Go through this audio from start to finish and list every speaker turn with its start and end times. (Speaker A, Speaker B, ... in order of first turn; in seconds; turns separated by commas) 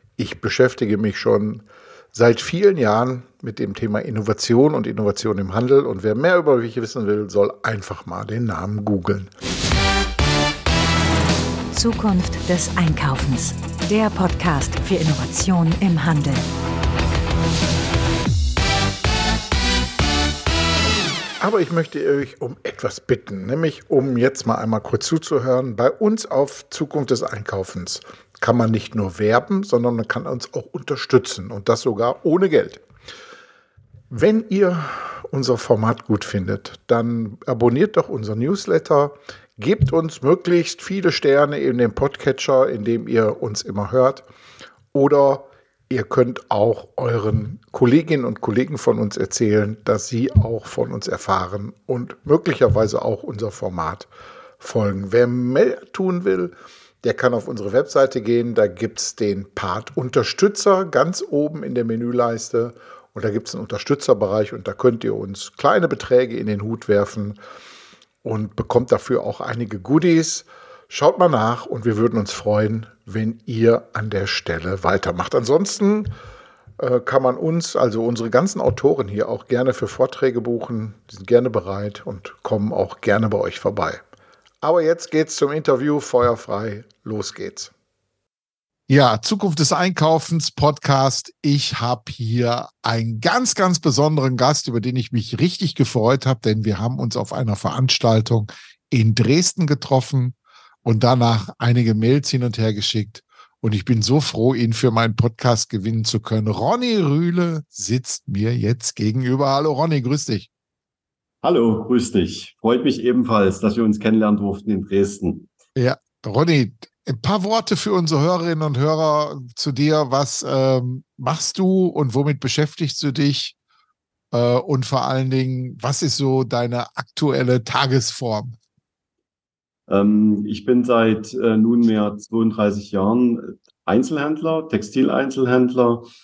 Speaker A: 0.2-9.3, Speaker B: 11.7-16.4, Speaker A: 21.4-32.8, Speaker A: 34.1-44.2, Speaker A: 44.9-54.1, Speaker A: 54.6-56.5, Speaker A: 57.0-67.4, Speaker A: 68.2-76.1, Speaker A: 76.8-84.0, Speaker A: 84.6-87.7, Speaker A: 88.9-110.5, Speaker C: 111.4-115.5, Speaker A: 115.8-123.5, Speaker A: 124.3-128.6, Speaker C: 129.9-136.1